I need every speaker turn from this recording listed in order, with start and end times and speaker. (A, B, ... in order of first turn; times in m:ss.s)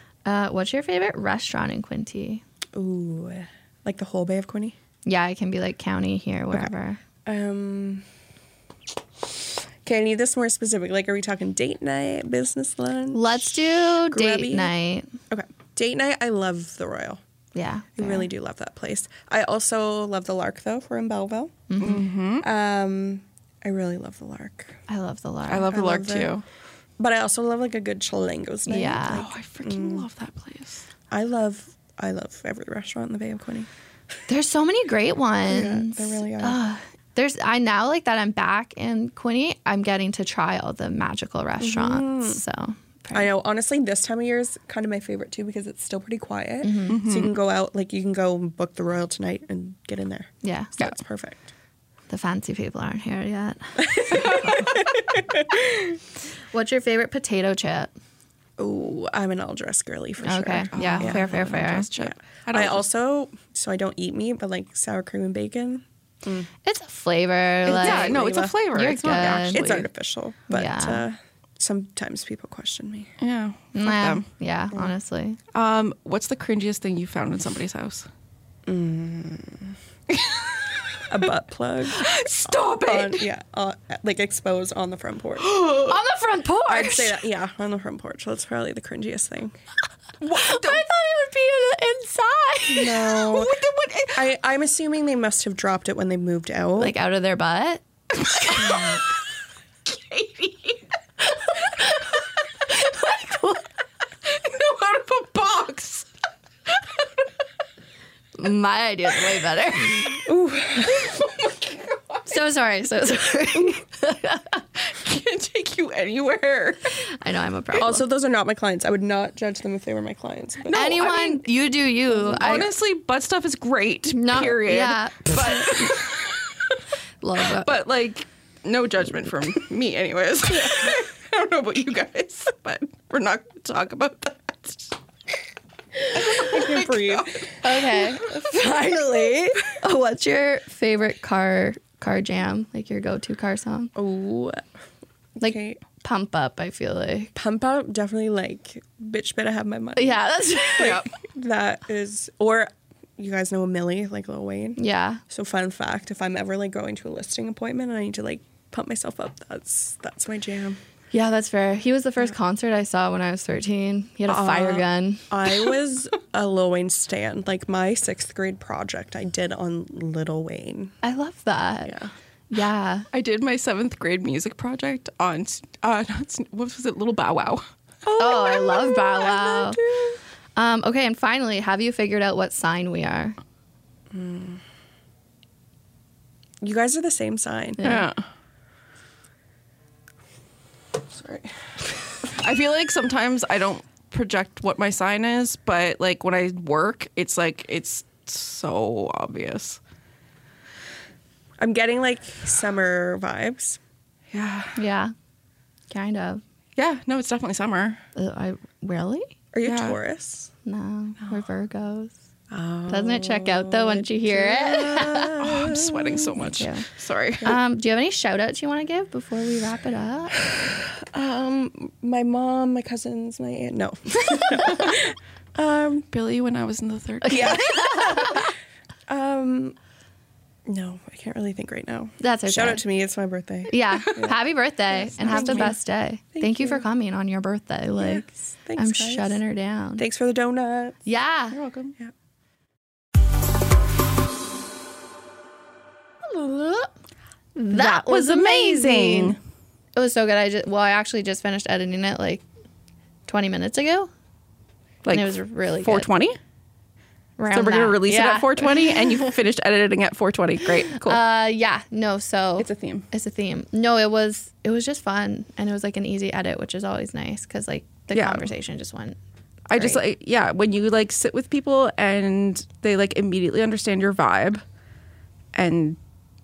0:00.3-0:02.4 A
0:02.8-0:04.8 B
0:05.1-0:07.0 A
0:07.2-0:08.0 B
0:09.2-0:14.7 B
0:13.1-0:15.1 A
0:15.3-0:17.2 B
0:17.6-0:18.3 A
0:18.0-0:21.7 B
0:21.7-0:22.0 A
0:21.8-0:22.5 C
0:22.4-0:24.8 B
0:24.9-0:25.8 A
0:25.5-0:26.4 C
0:25.7-0:26.3 B
0:27.0-0:30.1 B
0:28.7-0:29.3 A
0:29.1-0:30.8 C
0:31.1-0:33.7 B
0:34.3-0:43.3 A
0:35.5-0:36.6 B
0:41.6-0:42.4 B
0:43.1-0:51.5 B
0:46.6-0:47.0 A
0:46.9-0:47.3 C
0:50.4-0:50.9 A
0:52.1-0:54.7 A
0:53.8-0:56.0 B
0:54.1-0:54.7 C
0:56.5-0:57.9 A
0:58.6-1:06.5 B
1:00.2-1:01.9 A
1:00.7-1:02.8 C
1:06.6-1:09.6 A
1:07.7-1:09.9 C
1:07.7-1:08.6 B
1:09.1-1:13.1 B
1:10.5-1:11.0 A
1:13.2-1:14.2 C
1:13.8-1:15.4 A
1:15.5-1:18.1 C
1:18.7-1:19.8 B
1:20.1-1:21.1 C
1:21.1-1:25.6 B
1:21.9-1:23.2 C
1:25.4-1:26.0 C
1:25.9-1:27.2 A
1:26.7-1:29.6 B
1:30.2-1:30.8 C
1:30.2-1:33.1 A
1:32.7-1:33.6 B
1:33.1-1:34.2 C
1:34.1-1:36.9 B
1:36.8-1:39.0 A
1:38.4-1:39.0 C
1:39.9-1:40.8 C
1:41.3-1:42.1 A
1:42.6-1:43.7 A
1:44.2-1:46.1 C
1:46.8-1:47.0 C
1:48.4-1:50.2 A
1:50.2-1:51.2 B
1:50.8-1:52.4 C
1:52.3-1:54.6 A
1:54.8-1:56.9 C
1:57.0-1:58.0 A
1:57.7-2:00.9 B
2:00.7-2:01.4 C
2:00.7-2:02.7 A
2:02.3-2:06.8 C
2:04.1-2:06.0 A
2:07.2-2:07.7 A
2:07.5-2:14.9 C
2:16.1-2:17.4 B
2:16.2-2:18.5 C
2:17.6-2:18.4 A
2:18.3-2:19.5 B
2:19.6-2:23.9 A
2:24.0-2:24.6 B
2:25.4-2:27.3 A
2:25.4-2:25.8 B
2:27.4-2:30.2 B
2:30.0-2:31.0 A
2:30.7-2:40.8 B
2:30.8-2:31.1 C
2:34.8-2:35.2 A
2:41.1-2:45.3 A
2:44.3-2:50.9 B
2:51.0-2:53.1 A
2:51.9-2:52.1 B
2:53.1-3:00.2 C
2:58.2-2:59.8 A
3:00.6-3:03.4 A
3:04.1-3:04.6 B
3:06.6-3:07.8 B
3:07.8-3:08.1 A
3:07.8-3:08.2 C
3:11.1-3:11.5 B
3:12.2-3:19.8 C
3:21.6-3:23.8 B
3:24.3-3:24.8 C
3:24.8-3:25.1 A
3:25.9-3:26.4 A
3:26.8-3:28.0 C
3:28.2-3:29.3 A
3:29.5-3:30.5 B
3:29.6-3:30.0 C
3:30.6-3:32.1 A
3:32.5-3:36.4 B
3:32.9-3:35.4 A
3:35.4-3:37.6 C
3:36.4-3:36.9 A
3:37.4-3:40.4 A
3:40.4-3:46.1 B
3:44.6-3:44.8 A
3:46.1-3:47.6 C
3:47.2-3:48.5 A
3:47.3-3:48.5 B
3:49.1-3:49.8 B
3:50.7-3:54.4 B
3:52.2-3:52.8 A
3:53.7-4:00.0 A
3:55.0-3:55.8 B
3:55.3-3:55.7 C
3:56.4-3:56.8 B
3:58.0-3:59.4 B
4:00.0-4:01.0 B
4:01.1-4:01.6 A
4:01.5-4:02.0 C
4:06.3-4:06.9 A
4:07.6-4:09.4 A
4:07.7-4:09.4 C
4:10.0-4:12.4 A
4:13.3-4:14.1 A
4:15.0-4:16.4 C
4:15.1-4:16.1 A
4:17.4-4:19.3 A
4:17.5-4:21.2 C
4:20.7-4:29.2 A
4:22.6-4:23.1 C
4:28.1-4:28.5 C
4:29.7-4:34.6 C
4:29.8-4:30.0 A
4:35.5-4:36.0 C